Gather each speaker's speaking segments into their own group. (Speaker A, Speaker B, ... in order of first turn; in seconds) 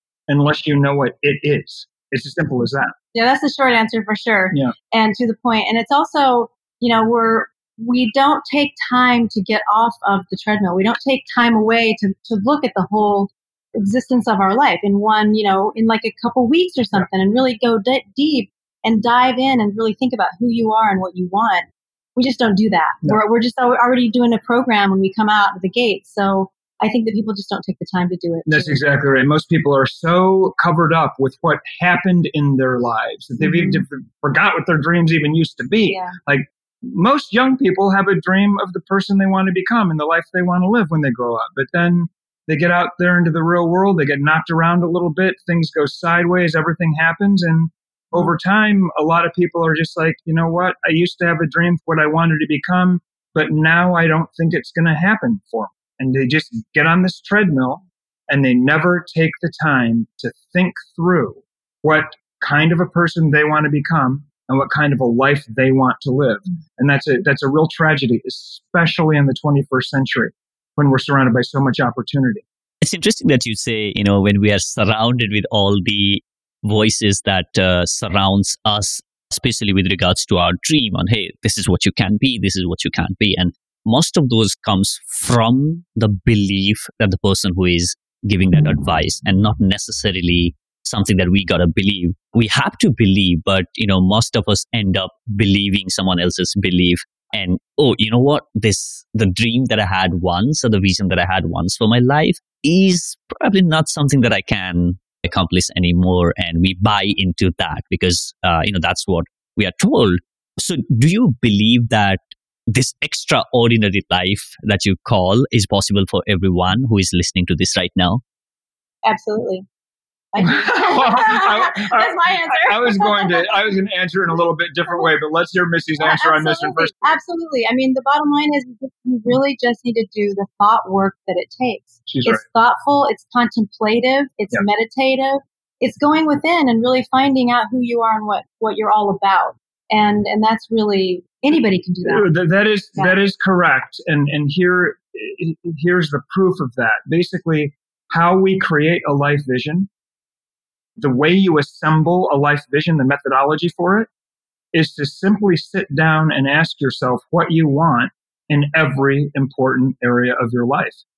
Speaker A: 0.3-2.9, 28.5-72.4, 120.4-127.2, 132.1-132.4, 142.0-149.9, 151.0-154.1, 154.7-161.0
Speaker B: 3.1-28.8, 33.4-33.8, 35.9-36.1, 119.0-119.6, 120.3-123.6, 126.0-142.3
Speaker C: 72.8-118.2